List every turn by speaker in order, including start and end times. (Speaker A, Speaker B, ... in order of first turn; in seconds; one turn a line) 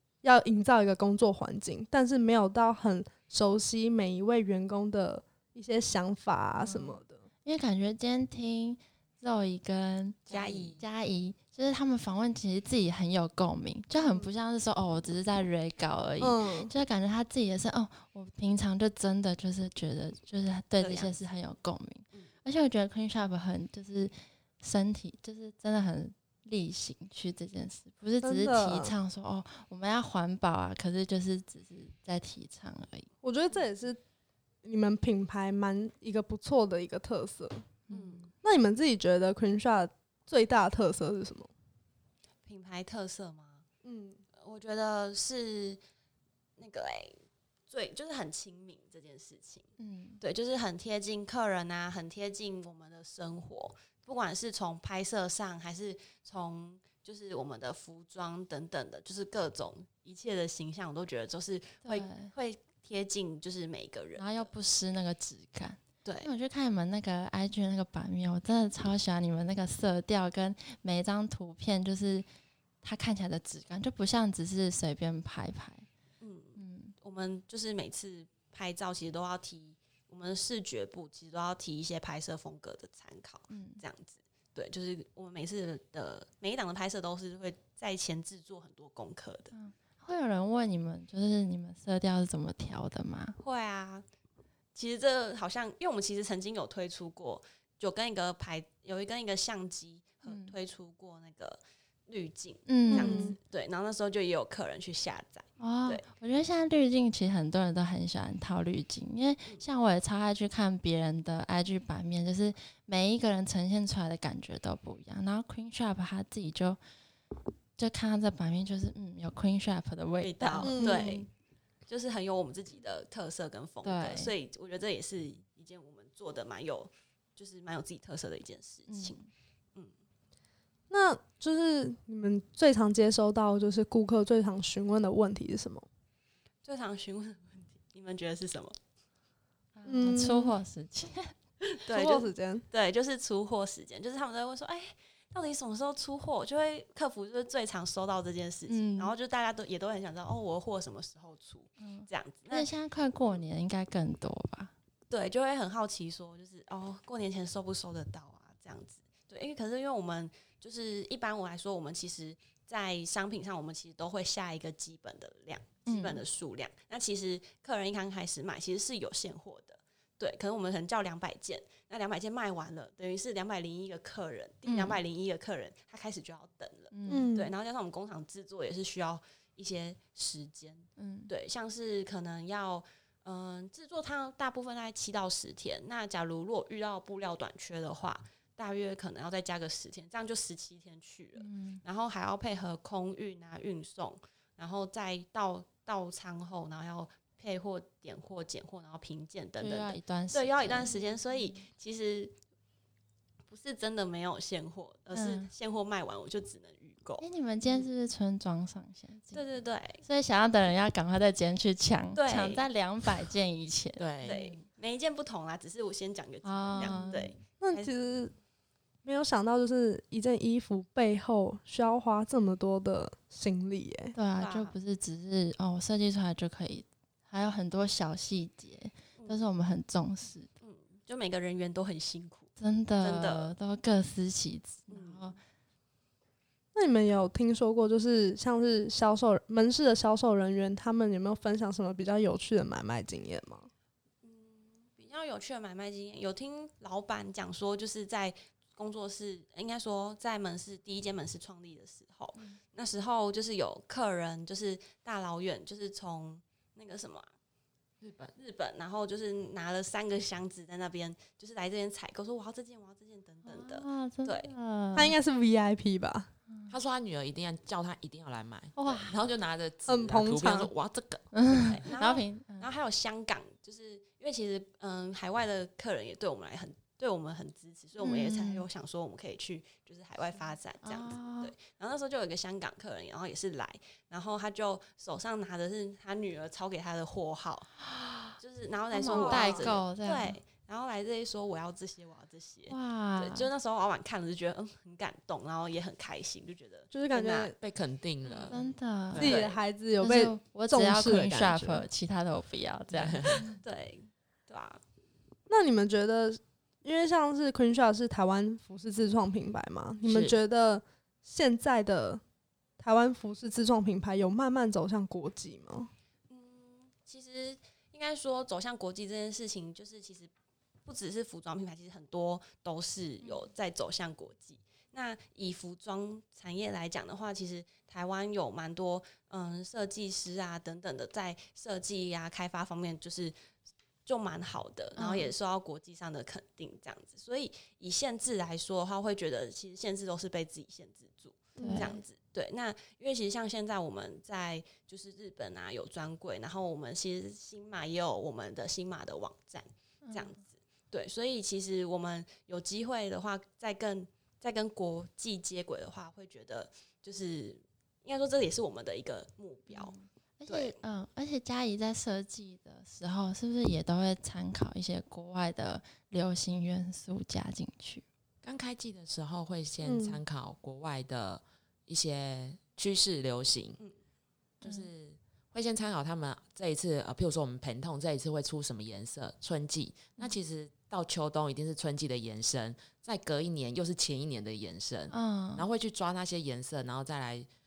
Speaker A: 0.2-7.2
Speaker B: 6.6-10.2
Speaker C: 10.3-10.8
Speaker D: 10.3-10.8
Speaker B: 10.8-33.1
Speaker A: 16.2-16.7
Speaker D: 20.8-21.2
Speaker A: 28.2-28.9
Speaker A: 33.2-34.0
Speaker A: 34.6-37.6
Speaker B: 37.9-38.3
Speaker D: 37.9-38.3
Speaker A: 38.4-41.5
Speaker D: 42.4-43.6
Speaker A: 43.8-44.2
Speaker D: 44.4-45.8
Speaker D: 46.6-64.5
Speaker B: 49.8-50.2
Speaker B: 61.8-62.3
Speaker B: 64.2-72.2
Speaker D: 66.0-66.3
Speaker B: 72.8-75.9
Speaker D: 76.2-89.5
Speaker B: 76.6-76.9
Speaker B: 83.5-83.8
Speaker B: 89.5-93.4
Speaker D: 93.4-94.0
Speaker D: 94.7-106.0
Speaker B: 100.2-100.5
Speaker B: 102.7-103.3
Speaker A: 102.9-103.3
Speaker B: 105.6-116.8
Speaker B: 117.8-121.2
Speaker D: 120.2-121.3
Speaker A: 120.6-121.2
Speaker D: 121.9-129.2
Speaker B: 123.8-124.3
Speaker B: 128.9-129.3
Speaker A: 130.9-135.8
Speaker D: 136.6-138.7
Speaker B: 139.7-141.3
Speaker A: 139.8-140.5
Speaker D: 141.7-152.7
Speaker A: 141.9-142.6
Speaker B: 148.7-149.1
Speaker B: 151.8-154.7
Speaker D: 155.1-202.4
Speaker B: 165.8-166.2
Speaker B: 174.7-175.0
Speaker B: 176.9-177.3
Speaker A: 177.1-177.5
Speaker B: 181.0-181.3
Speaker B: 191.4-191.8
Speaker B: 199.6-201.7
Speaker D: 203.5-207.9
Speaker B: 205.1-205.5
Speaker B: 207.2-214.6
Speaker D: 209.3-210.0
Speaker D: 212.2-212.7
Speaker C: 214.0-214.3
Speaker D: 214.2-217.9
Speaker B: 216.4-217.3
Speaker A: 217.6-218.3
Speaker A: 219.0-224.1
Speaker B: 224.1-230.5
Speaker D: 224.4-224.7
Speaker D: 229.2-229.4
Speaker D: 230.6-233.5
Speaker B: 232.6-235.4
Speaker D: 234.9-235.4
Speaker A: 236.7-243.7
Speaker D: 244.2-257.3
Speaker C: 258.0-258.3
Speaker D: 258.4-264.5
Speaker B: 263.4-265.1
Speaker A: 264.9-266.3
Speaker B: 266.5-266.7
Speaker C: 266.7-271.8
Speaker B: 268.8-269.1
Speaker A: 269.9-270.7
Speaker B: 271.3-272.7
Speaker D: 271.5-287.8
Speaker B: 278.0-278.6
Speaker B: 280.8-281.5
Speaker B: 287.8-288.4
Speaker D: 288.4-297.5
Speaker B: 288.9-290.4
Speaker A: 289.0-289.7
Speaker B: 292.7-293.5
Speaker A: 296.9-297.6
Speaker C: 297.6-299.4
Speaker D: 298.2-298.6
Speaker B: 298.5-299.2
Speaker A: 299.2-301.9
Speaker D: 299.2-299.6
Speaker B: 300.0-303.6
Speaker C: 302.9-303.5
Speaker D: 303.6-304.8
Speaker A: 305.5-312.2
Speaker C: 310.1-310.4
Speaker A: 312.8-315.9
Speaker D: 316.3-320.3
Speaker D: 320.9-333.3
Speaker B: 323.2-323.5
Speaker D: 334.1-359.9
Speaker B: 335.0-335.3
Speaker A: 341.6-342.0
Speaker B: 341.6-342.0
Speaker B: 350.0-350.4
Speaker B: 359.7-368.0
Speaker D: 360.5-360.7
Speaker C: 368.4-373.8
Speaker A: 369.8-370.2
Speaker B: 374.6-374.9
Speaker C: 374.6-387.5
Speaker B: 385.1-385.6